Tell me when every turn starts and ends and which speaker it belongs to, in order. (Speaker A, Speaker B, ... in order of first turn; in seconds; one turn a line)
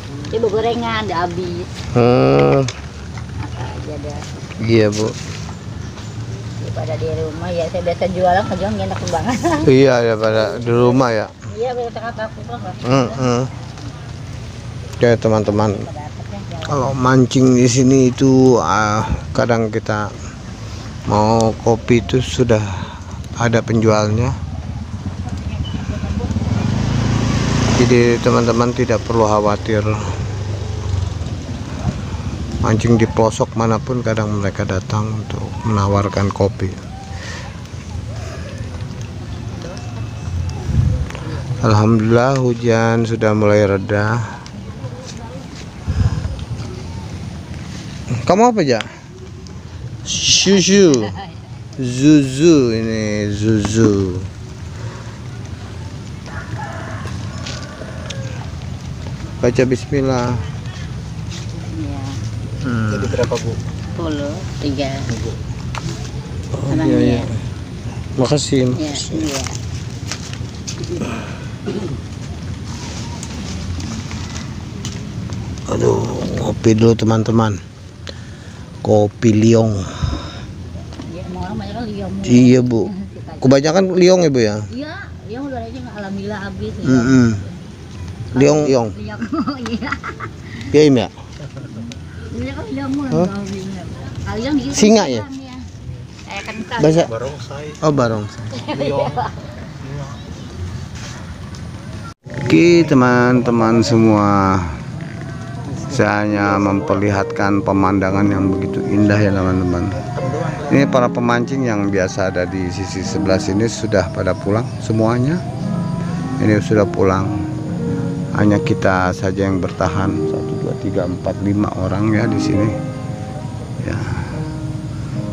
Speaker A: 0.3-1.7
Speaker B: 1.9-2.7
Speaker A: 3.4-4.2
Speaker B: 4.6-5.2
Speaker A: 6.6-9.7
Speaker B: 9.6-11.3
Speaker A: 10.2-13.2
Speaker B: 12.8-13.5
Speaker B: 15.0-15.9
Speaker A: 15.3-17.0
Speaker B: 16.7-20.1
Speaker B: 21.1-24.4
Speaker B: 27.8-30.0
Speaker B: 32.6-36.8
Speaker B: 41.6-44.2
Speaker B: 48.2-48.9
Speaker B: 50.0-51.2
Speaker B: 51.8-54.3
Speaker B: 59.4-60.4
Speaker A: 61.5-62.2
Speaker B: 62.6-63.3
Speaker A: 63.9-65.2
Speaker B: 66.5-67.3
Speaker A: 66.7-67.3
Speaker B: 68.2-69.2
Speaker A: 68.7-69.6
Speaker B: 75.7-77.6
Speaker B: 78.8-79.9
Speaker A: 81.1-83.6
Speaker B: 82.2-82.9
Speaker B: 83.4-84.7
Speaker A: 84.7-87.5
Speaker B: 86.8-87.4
Speaker B: 88.3-89.0
Speaker A: 88.3-90.4
Speaker B: 90.7-91.1
Speaker A: 92.3-95.7
Speaker B: 94.7-95.3
Speaker A: 96.3-97.3
Speaker B: 96.8-97.1
Speaker B: 97.7-98.5
Speaker A: 98.5-99.4
Speaker B: 102.4-104.7
Speaker B: 105.8-115.4
Speaker B: 116.4-117.3
Speaker B: 118.3-122.8
Speaker B: 123.8-124.2